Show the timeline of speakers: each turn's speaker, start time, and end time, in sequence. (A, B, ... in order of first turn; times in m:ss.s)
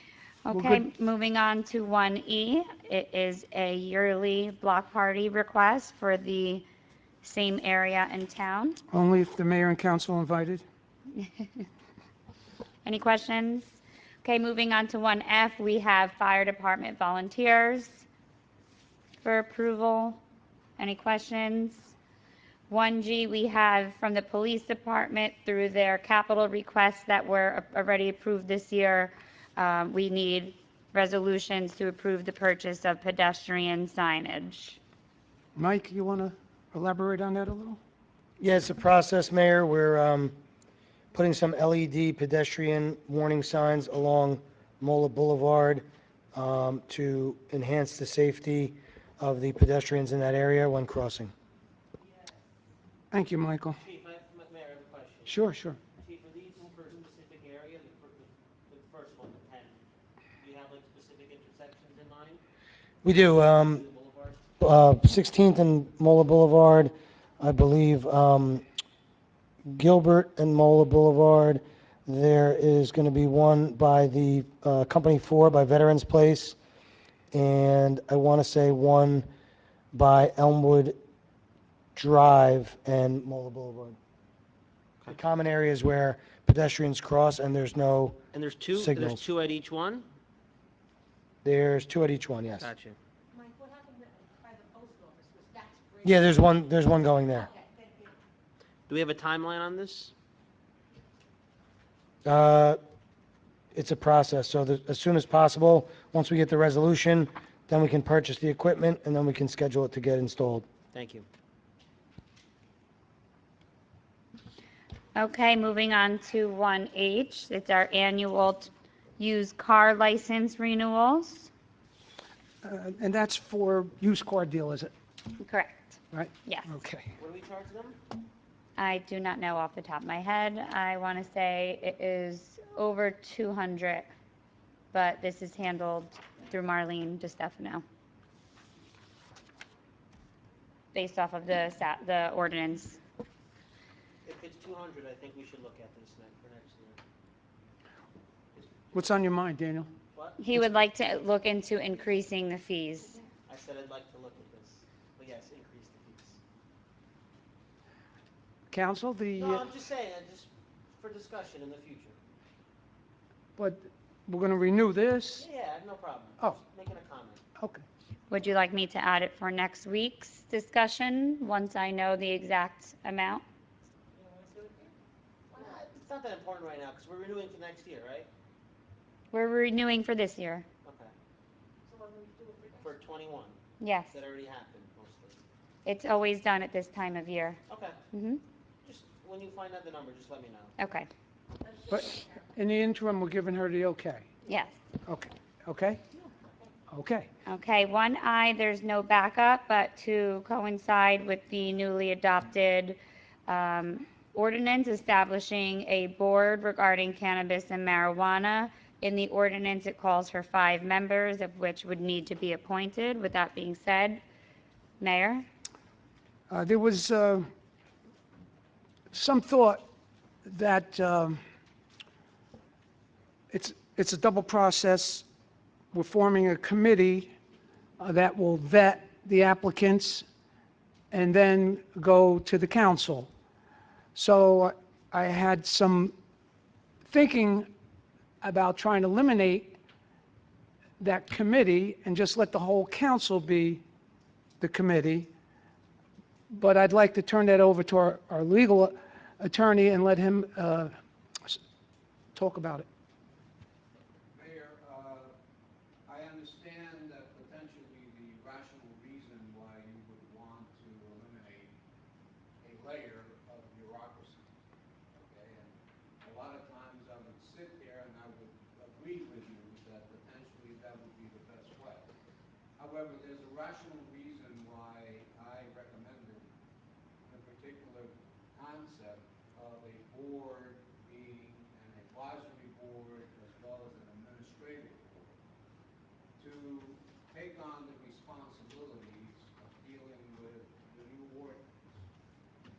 0:00.4-0:06.6 A
0:00.5-0:00.8 B
0:07.2-0:08.8 A
0:08.9-0:10.6 B
0:11.1-0:11.6 A
0:12.8-0:18.0 A
0:19.2-0:20.2 A
0:20.8-0:21.9 A
0:22.7-0:34.8 A
0:35.6-0:37.8 B
0:38.4-0:40.4 C
0:41.1-0:51.3 C
0:52.0-0:52.4 D
0:53.1-0:53.8 B
0:53.8-0:55.4 E
0:55.2-0:55.8 B
0:56.0-0:59.8 E
1:00.4-1:02.4 E
1:03.0-1:03.8 C
1:03.4-1:04.4 E
1:04.6-1:08.6 C
1:09.6-1:16.6 C
1:17.3-1:19.2 C
1:19.9-1:21.0 C
1:21.9-1:24.0 C
1:25.1-1:28.2 C
1:28.3-1:30.0 E
1:28.7-1:29.2 C
1:31.4-1:32.7 C
1:32.6-1:33.0 E
1:33.3-1:36.4 D
1:36.0-1:37.5 C
1:37.4-1:38.1 D
1:38.9-1:40.1 E
1:42.2-1:42.8 C
1:43.7-1:50.6 C
1:50.9-1:51.2 E
1:55.2-2:01.5 A
2:02.6-2:04.9 B
2:05.4-2:06.8 A
2:06.1-2:07.1 B
2:07.2-2:08.0 E
2:08.8-2:14.1 A
2:14.9-2:17.8 A
2:20.9-2:23.0 A
2:24.2-2:27.0 E
2:28.5-2:28.8 E
2:28.9-2:29.9 B
2:30.1-2:30.4 E
2:30.4-2:33.2 A
2:33.5-2:36.4 E
2:38.7-2:39.6 B
2:39.3-2:42.2 E
2:43.6-2:45.4 B
2:45.4-2:47.4 E
2:47.6-2:47.8 B
2:48.3-2:53.4 A
2:54.1-2:54.9 E
2:55.5-2:58.3 E
2:59.3-3:00.6 A
3:00.8-3:01.1 E
3:01.8-3:03.0 D
3:02.8-3:03.6 E
3:03.8-3:04.2 A
3:04.1-3:05.4 E
3:05.8-3:07.6 A
3:07.7-3:08.0 E
3:08.1-3:08.4 A
3:08.8-3:10.7 E
3:10.8-3:11.1 A
3:11.9-3:14.3 B
3:14.4-3:14.7 A
3:15.0-3:16.0 B
3:16.9-3:17.3 B
3:17.5-3:34.2 A
3:35.0-3:35.5 A
3:36.5-3:37.5 B
3:39.1-3:39.8 B
3:40.4-3:41.4 B
3:43.5-3:45.2 B
3:45.9-3:47.3 B
3:48.0-3:50.3 B
3:51.1-3:53.3 B
3:54.1-3:56.1 B
3:57.0-3:57.7 B
3:58.4-3:59.8 B
4:01.0-4:03.8 B
4:04.6-4:05.3 B
4:06.5-4:10.9 B
4:12.3-4:12.9 B
4:14.3-4:15.3 F
4:16.0-4:21.7 F
4:22.6-4:24.4 F
4:25.1-4:32.1 F
4:32.8-4:36.4 F
4:37.2-4:45.3 F
4:46.4-4:52.0 F